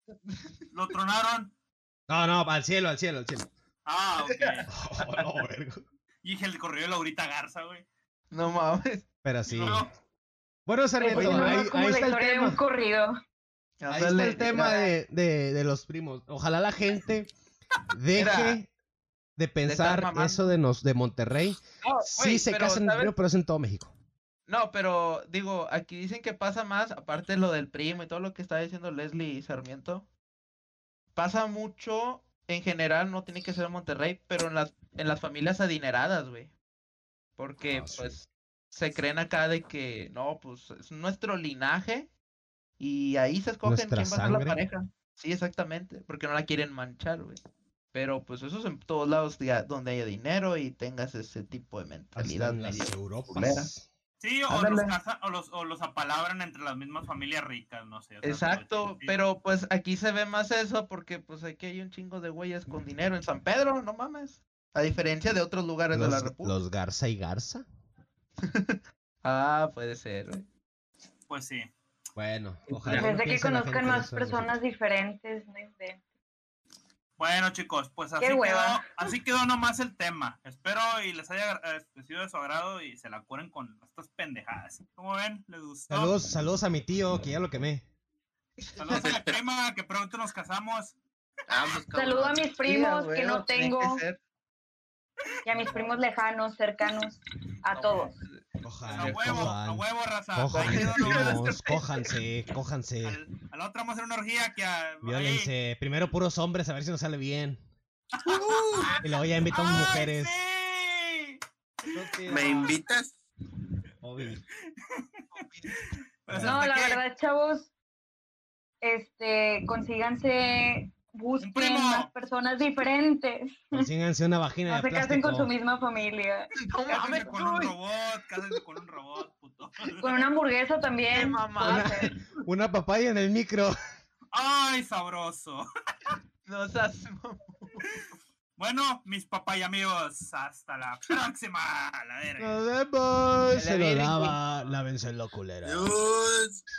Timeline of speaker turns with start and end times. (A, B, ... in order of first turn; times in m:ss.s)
0:00.3-0:00.6 A
0:00.7-0:01.5 B
0:02.1-0:03.5 C
0:03.9-0:04.7 B
0:04.2-0:05.3 A
0:04.7-0:05.8 C
0:06.2-0:07.8 B
0:08.3-0:09.1 A
0:09.2-0:09.9 C
0:09.5-0:09.9 B
0:10.7-0:12.6 C
0:11.0-0:13.2 D
0:11.1-0:11.7 A
0:13.8-0:14.9 A
0:13.9-0:17.3 C
0:17.9-0:18.7 C
0:18.2-0:18.6 A
0:19.4-0:23.9 C
0:19.6-0:20.6 A
0:21.8-0:23.1 A
0:24.5-0:30.1 A
0:31.2-0:36.5 A
0:37.4-0:42.1 A
0:37.7-0:38.2 C
0:42.8-0:47.4 A
0:43.6-0:44.6 C
0:47.9-0:53.7 A
0:52.2-0:53.9 C
0:54.2-0:59.2 B
0:54.5-0:55.0 A
0:58.2-1:06.6 A
1:05.9-1:07.6 C
1:08.4-1:10.4 A
1:11.3-1:11.7 B
1:12.2-1:14.6 C
1:12.7-1:13.1 A
1:12.9-1:16.0 D
1:17.2-1:26.2 B
1:18.2-1:18.8 D
1:25.9-1:27.8 C
1:28.6-1:28.9 A
1:28.8-1:31.0 B
1:28.9-1:29.4 E
1:31.5-1:32.5 E
1:32.0-1:34.0 D
1:32.6-1:34.2 A
1:35.4-1:38.2 D
1:35.5-1:36.0 A
1:37.7-1:39.6 A
1:38.6-1:39.8 C
1:38.9-1:41.4 B
1:40.4-1:43.2 C
1:40.5-1:42.1 A
1:43.0-1:45.5 B
1:45.0-1:47.6 C
1:48.2-1:48.9 B
1:48.4-1:49.0 A
1:49.0-1:50.4 C
1:49.5-1:51.4 B
1:51.9-1:52.8 C
1:52.3-1:53.2 E
1:54.0-1:54.4 C
1:55.3-1:55.8 A
1:55.8-1:57.0 B
1:56.3-1:56.6 C
1:56.4-1:57.7 D
1:58.8-2:03.7 D
2:01.4-2:02.1 B
2:03.7-2:05.5 C
2:04.7-2:06.5 D
2:06.6-2:07.7 A
2:06.9-2:10.2 B
2:10.0-2:12.1 D
2:11.1-2:12.2 A
2:11.6-2:13.7 C
2:14.3-2:15.7 B
2:16.4-2:17.8 A
2:18.6-2:22.6 B
2:22.4-2:25.9 C
2:23.5-2:24.4 A
2:25.6-2:26.6 E